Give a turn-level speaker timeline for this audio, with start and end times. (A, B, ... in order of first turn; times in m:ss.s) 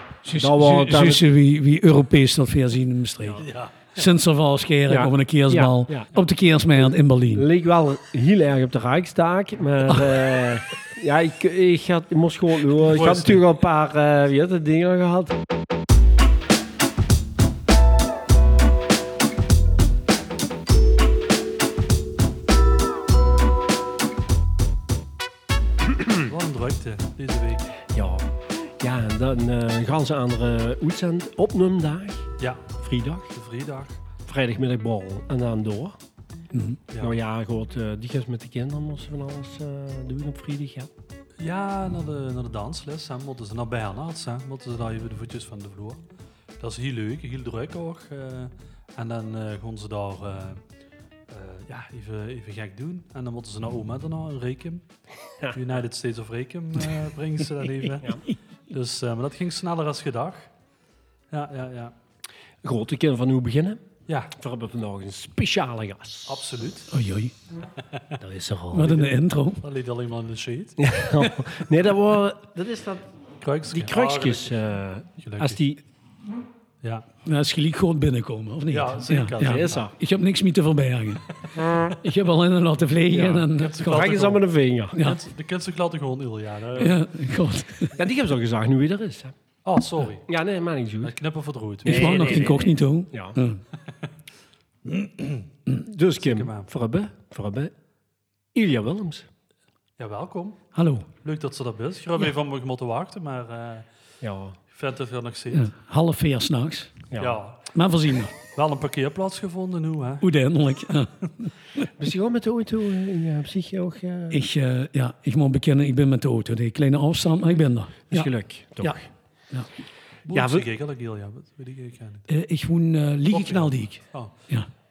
0:00.2-0:07.4 A
0:00.3-0:01.2 B
0:03.4-0:04.1 C
0:04.9-0:06.1 B
0:06.8-0:15.4 B
0:12.8-0:13.4 C
0:26.2-0:27.8 C
0:27.9-0:32.3 B
0:32.8-0:33.3 B
0:33.3-0:34.0 C
0:34.2-0:36.0 B
0:36.5-0:36.8 A
0:36.9-0:37.2 C
0:37.0-0:40.9 B
0:41.4-0:46.0 C
0:46.6-0:50.6 C
0:51.3-0:54.8 C
0:55.5-1:00.5 C
1:01.3-1:01.9 C
1:02.6-1:06.4 B
1:06.3-1:06.9 C
1:06.9-1:07.4 A
1:08.2-1:09.1 B
1:08.7-1:09.6 A
1:09.6-1:11.1 C
1:10.8-1:13.1 B
1:13.4-1:14.6 C
1:13.7-1:15.8 B
1:15.2-1:15.6 C
1:17.2-1:21.3 A
1:18.7-1:19.9 C
1:19.4-1:19.9 B
1:21.9-1:24.2 A
1:23.1-1:25.0 B
1:23.6-1:24.4 C
1:25.0-1:27.0 C
1:26.8-1:27.9 A
1:28.0-1:29.4 B
1:29.6-1:30.2 C
1:30.3-1:31.1 B
1:31.0-1:32.6 C
1:31.8-1:33.4 B
1:31.8-1:33.6 A
1:34.9-1:35.5 C
1:35.9-1:37.7 B
1:36.2-1:36.7 C
1:38.5-1:39.3 B
1:40.0-1:40.6 C
1:40.7-1:41.1 A
1:41.2-1:43.9 C
1:44.2-1:44.6 B
1:44.7-1:45.7 C
1:45.5-1:47.0 A
1:47.1-1:47.4 B
1:47.2-1:47.8 C
1:47.7-1:48.4 A
1:48.5-1:50.3 C
1:50.2-1:51.5 A
1:52.0-1:54.4 B
1:54.3-1:59.7 A
1:58.1-1:59.1 B
2:00.3-2:02.3 C
2:00.3-2:00.7 B
2:02.3-2:04.7 A
2:03.3-2:04.3 C